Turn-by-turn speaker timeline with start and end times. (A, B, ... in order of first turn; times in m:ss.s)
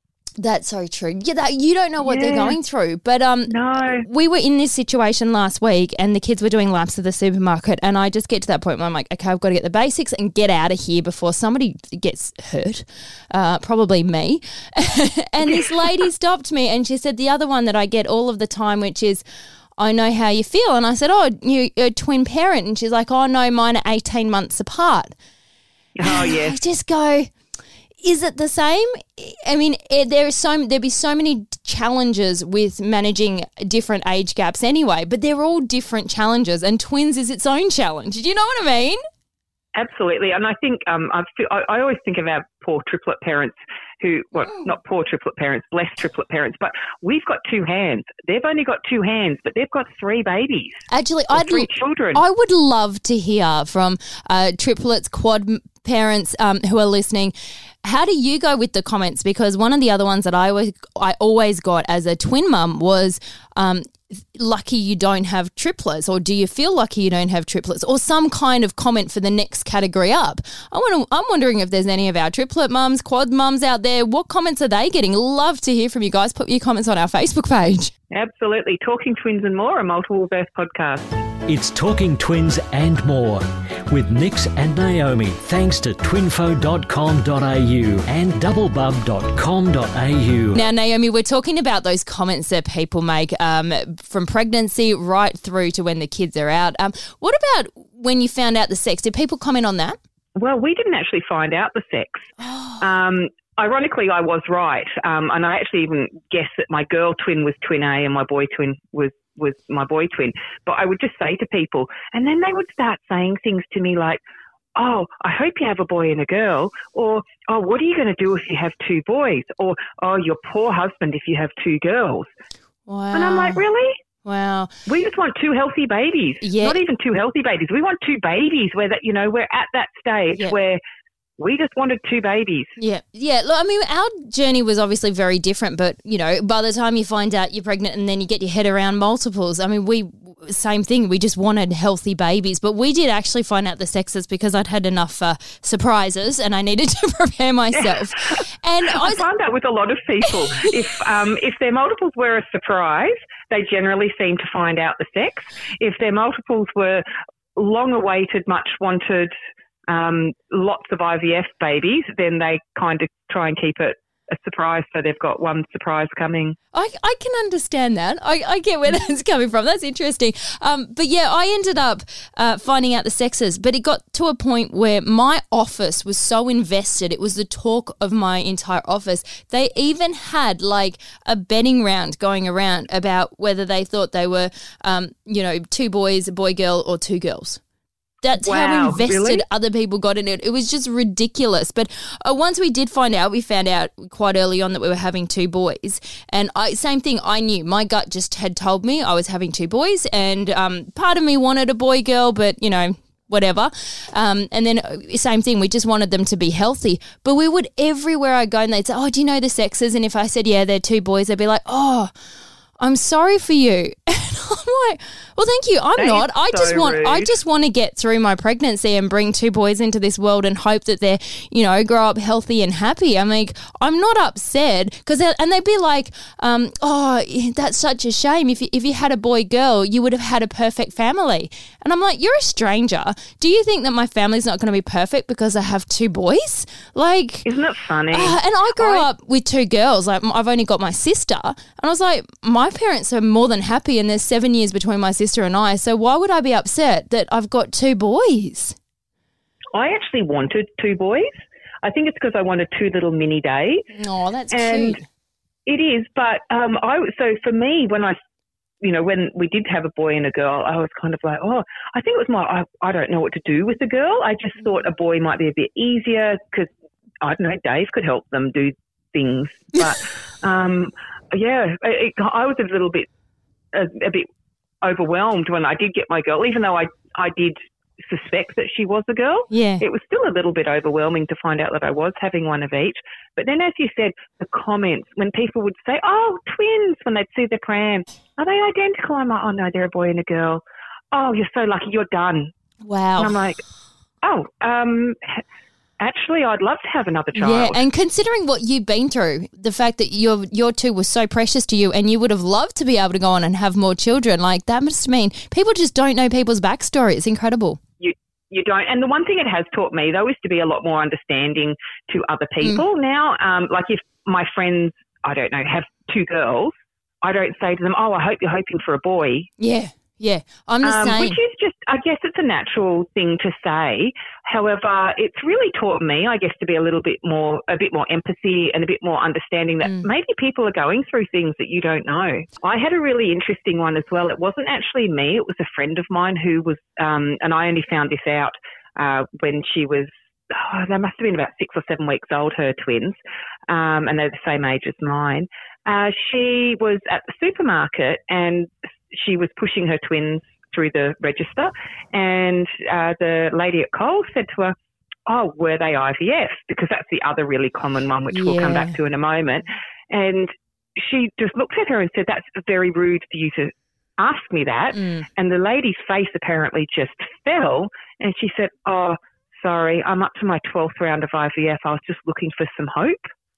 0:00.4-0:19.2 A
0:02.0-0:02.6 B
0:03.5-0:04.0 B
0:19.8-0:25.1 A
0:26.0-0:26.6 B
0:26.0-0:27.3 A
0:28.0-0:39.0 A
0:39.7-0:52.2 B
0:44.4-0:44.7 A
0:50.9-0:57.3 A
0:57.8-1:17.9 A
1:18.1-1:21.2 B
1:21.5-1:30.6 C
1:30.5-1:40.0 A
1:40.4-1:54.2 B
1:42.4-1:42.8 A
1:54.8-2:02.3 B
2:02.9-2:03.6 A
2:03.1-2:04.0 B
2:04.2-2:04.7 A
2:04.9-2:10.8 B
2:06.4-2:06.8 A
2:11.4-2:12.8 B
2:12.8-2:29.2 A
2:27.8-2:28.0 B
2:28.9-2:39.3 B
2:30.3-2:30.7 A
2:39.9-2:46.6 B
2:46.7-3:07.6 A
3:08.2-3:32.1 A
3:08.4-3:09.4 B
3:32.8-3:57.5 A
3:36.0-3:37.3 B
3:57.4-3:59.0 B
3:58.1-4:08.8 A
4:09.7-4:13.9 B
4:13.9-4:15.0 A
4:14.5-4:15.0 B
4:15.7-4:18.2 B
4:18.8-4:26.7 B
4:27.2-4:33.1 B
4:33.7-4:34.3 B
4:34.8-4:52.5 B
4:39.5-4:39.8 A
4:52.8-4:53.4 A
4:53.2-4:53.6 B
4:54.2-4:55.4 B
4:56.0-4:57.8 B
4:57.3-5:07.8 A
5:08.0-5:19.5 B
5:19.6-5:21.4 A
5:20.8-5:43.2 B
5:29.8-5:30.1 A
5:43.7-5:54.7 B
5:55.3-6:13.3 B
5:58.3-5:59.0 A
6:04.9-6:05.3 A